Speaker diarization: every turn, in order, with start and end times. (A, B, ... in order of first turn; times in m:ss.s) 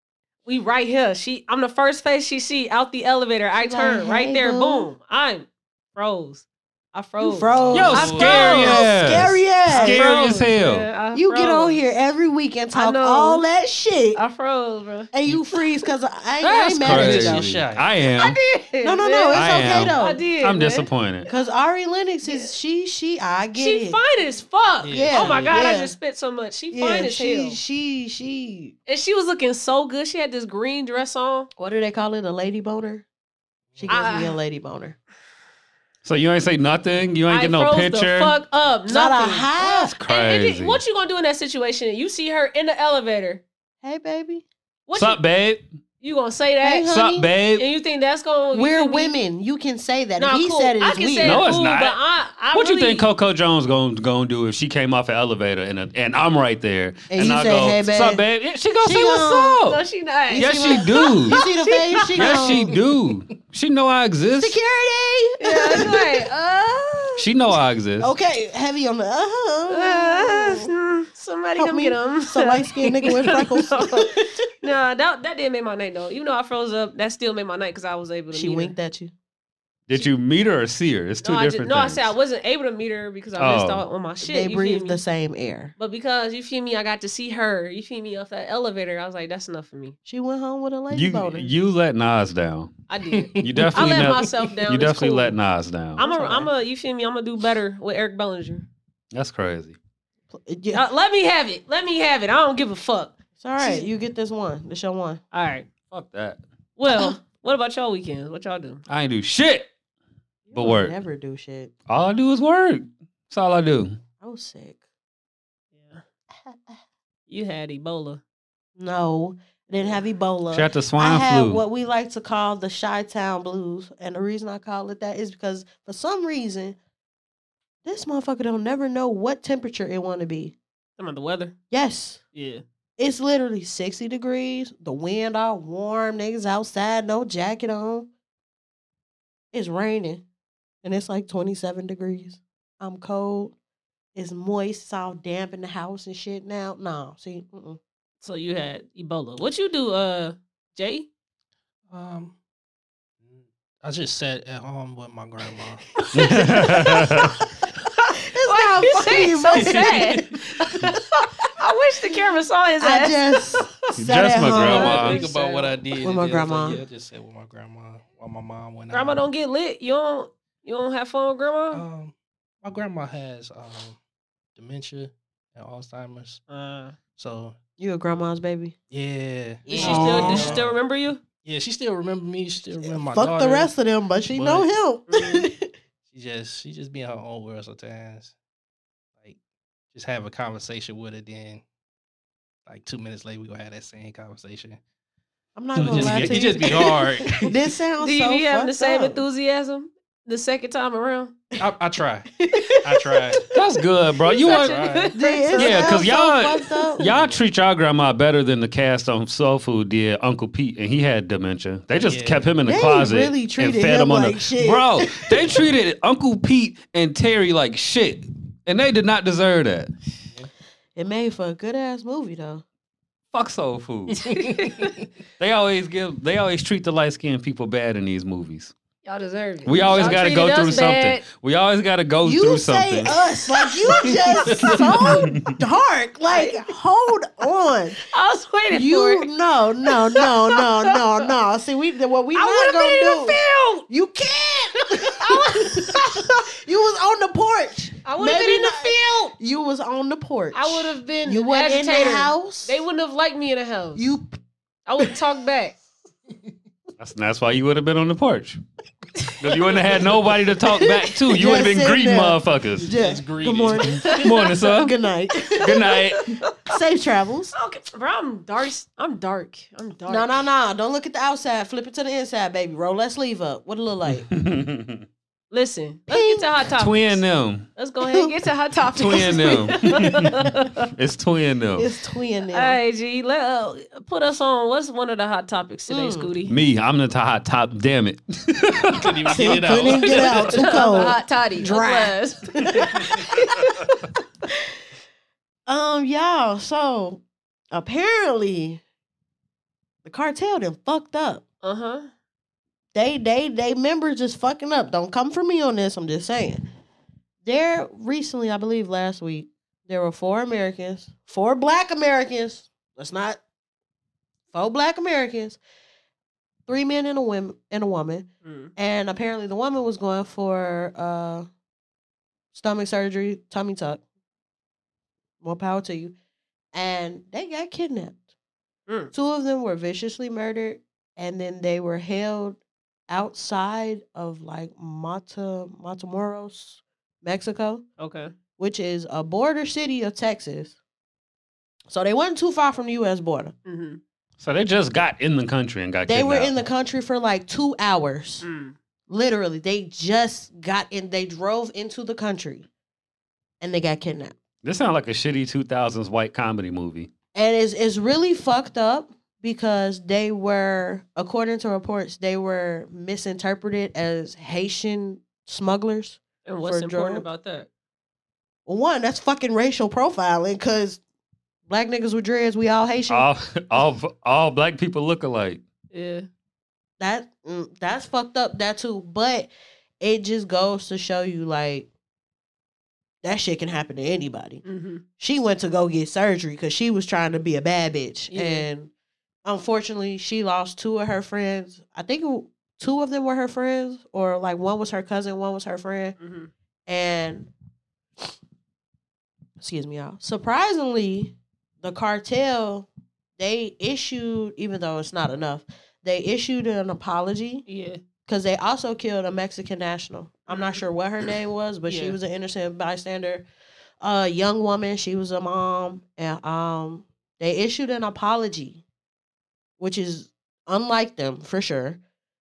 0:00.4-0:08.8 A
0:03.6-0:04.9 B
0:07.2-0:10.0 B
0:07.5-0:08.4 C
0:07.7-0:10.9 D
0:09.7-0:11.8 A
0:11.1-0:14.2 B
0:12.7-0:13.4 A
0:14.1-0:15.1 A
0:15.1-0:17.5 B
0:16.5-0:17.9 C
0:16.8-0:18.4 D
0:18.1-0:21.4 A
0:18.8-0:20.2 B
0:19.3-0:21.3 D
0:21.3-0:24.0 B
0:22.2-0:22.5 A
0:23.6-0:27.6 A
0:24.8-0:25.7 C
0:24.9-0:25.9 B
0:26.7-0:28.7 B
0:28.9-0:31.5 A
0:31.6-0:33.0 B
0:33.7-0:34.1 C
0:33.8-0:35.0 B
0:33.9-0:34.4 A
0:36.0-0:38.3 D
0:37.3-0:43.4 A
0:38.9-0:40.0 B
0:39.6-0:40.8 D
0:43.8-0:44.4 B
0:44.9-0:45.2 A
0:44.9-0:45.6 D
0:46.0-0:46.9 A
0:46.6-0:47.3 B
0:46.9-0:47.6 D
0:47.6-0:49.1 A
0:48.5-0:51.4 B
0:50.2-0:53.1 A
0:51.2-0:52.0 D
0:52.5-0:59.8 D
0:57.1-0:58.2 B
0:58.8-0:59.6 B
0:58.9-1:02.4 A
1:00.3-1:02.8 B
1:00.3-1:01.4 D
1:02.1-1:04.6 D
1:04.4-1:06.3 B
1:05.4-1:07.2 A
1:07.2-1:08.1 D
1:08.0-1:10.7 B
1:09.7-1:18.7 A
1:11.6-1:14.4 B
1:18.3-1:19.1 B
1:19.9-1:22.1 D
1:21.2-1:25.0 A
1:23.4-1:23.8 D
1:24.2-1:25.7 B
1:25.8-1:30.0 A
1:30.1-1:31.5 B
1:30.9-1:32.7 D
1:32.9-1:35.3 A
1:33.1-1:33.9 C
1:33.4-1:36.0 D
1:36.0-1:38.7 A
1:36.0-1:36.5 B
1:39.1-1:39.8 D
1:40.3-1:40.8 B
1:40.7-1:43.9 A
1:43.4-1:45.2 B
1:45.3-1:45.7 A
1:45.9-1:46.4 D
1:46.8-1:48.8 A
1:46.9-1:47.2 B
1:48.9-1:49.7 D
1:50.5-1:51.7 B
1:50.5-1:51.0 D
1:51.9-1:53.9 D
1:54.2-1:54.8 B
1:55.7-1:56.0 A
1:56.3-1:56.8 B
1:57.3-1:58.2 A
1:58.8-2:06.8 B
2:00.5-2:01.6 D
2:07.8-2:10.6 B
2:11.0-2:11.5 A
2:11.7-2:12.2 B
2:12.3-2:12.6 A
2:13.0-2:18.1 B
2:19.5-2:20.2 B
2:20.8-2:23.5 B
2:24.1-2:27.8 B
2:28.2-2:31.1 A
2:31.9-2:32.3 C
2:33.2-2:35.8 C
2:36.0-2:37.1 A
2:36.1-2:37.4 D
2:38.0-2:43.9 A
2:38.2-2:40.9 B
2:39.1-2:40.4 C
2:42.8-2:45.0 B
2:44.0-2:45.2 D
2:44.5-2:49.2 C
2:44.8-2:45.8 A
2:46.0-2:46.8 B
2:48.9-2:51.8 A
2:51.7-2:54.0 C
2:54.6-2:56.4 C
2:56.5-2:57.0 A
2:57.2-2:57.6 C
2:57.8-2:58.7 B
2:58.9-3:00.8 C
2:59.7-3:00.6 B
2:59.7-3:01.2 A
3:01.4-3:03.7 C
3:02.8-3:05.7 B
3:04.3-3:04.7 C
3:05.1-3:05.5 A
3:06.1-3:08.3 C
3:09.9-3:11.6 C
3:12.6-3:14.8 C
3:15.6-3:19.2 B
3:15.8-3:16.4 D
3:15.8-3:17.4 C
3:18.0-3:21.3 A
3:21.6-3:23.5 C
3:22.4-3:23.4 B
3:23.5-3:24.9 D
3:24.2-3:25.8 A
3:24.5-3:25.9 C
3:25.1-3:27.1 B
3:25.6-3:39.9 D
3:27.0-3:27.4 C
3:31.9-3:32.5 C
3:32.6-3:35.6 B
3:41.0-3:42.6 B
3:43.3-3:44.2 D
3:44.2-3:45.0 A
3:44.2-3:45.0 C
3:45.4-3:48.7 D
3:49.0-3:51.2 A
3:49.6-3:53.1 D
3:49.8-3:50.8 B
3:52.2-3:58.0 B
3:53.1-3:55.0 A
3:55.0-3:55.5 D
3:56.3-3:56.6 A
3:58.1-3:59.3 A
3:58.7-4:03.4 B
3:59.9-4:01.0 A
4:02.3-4:03.8 A
4:03.9-4:12.8 B
4:04.9-4:06.3 A
4:08.0-4:09.3 A
4:10.5-4:14.1 A
4:14.0-4:14.3 B
4:14.8-4:15.8 A
4:17.0-4:18.6 D
4:19.4-4:22.9 D
4:20.7-4:25.8 B
4:22.9-4:24.0 C
4:24.1-4:24.9 D
4:25.5-4:26.7 A
4:25.6-4:26.4 D
4:26.6-4:27.5 B
4:27.5-4:30.3 A
4:30.1-4:34.3 B
4:34.0-4:35.0 D
4:35.5-4:37.2 A
4:36.1-4:36.4 B
4:36.8-4:37.7 D
4:37.8-4:40.9 A
4:38.1-4:38.3 B
4:38.9-4:40.3 D
4:40.9-4:41.9 D
4:41.8-4:42.8 B
4:42.5-4:46.5 A
4:45.9-4:46.3 B
4:46.5-4:49.6 D
4:48.9-4:51.1 C
4:49.3-4:53.2 B
4:49.8-4:54.0 A
4:55.7-4:58.8 B
5:00.0-5:01.4 B
5:01.6-5:02.1 A
5:02.9-5:06.6 B
5:07.4-5:13.4 B
5:14.5-5:15.6 B
5:16.7-5:21.5 B
5:18.4-5:18.7 A
5:22.5-5:24.0 B
5:25.4-5:26.1 B
5:26.7-5:28.2 B
5:28.9-5:29.1 A
5:29.1-5:37.8 B
5:38.0-5:38.3 A
5:38.6-5:40.7 B
5:41.9-5:43.5 B
5:43.7-5:44.0 A
5:44.4-5:46.5 D
5:46.1-5:48.4 B
5:48.4-5:48.8 A
5:49.1-5:52.7 B
5:53.6-5:54.4 B
5:54.6-5:57.1 D
5:57.3-6:07.2 B
6:06.4-6:07.7 A
6:08.6-6:11.0 B
6:11.7-6:13.3 B
6:13.1-6:15.6 D
6:15.9-6:16.3 A
6:17.0-6:21.9 B
6:23.2-6:24.6 B
6:24.6-6:25.0 A
6:25.2-6:28.9 B
6:28.3-6:28.6 A
6:29.4-6:36.2 B
6:36.2-6:36.5 A
6:36.9-6:37.5 B
6:39.6-6:47.6 B
6:47.7-6:48.0 A
6:48.3-6:53.5 B
6:50.5-6:50.8 A
6:51.9-6:52.2 A
6:54.0-6:58.8 B
6:59.8-7:02.0 B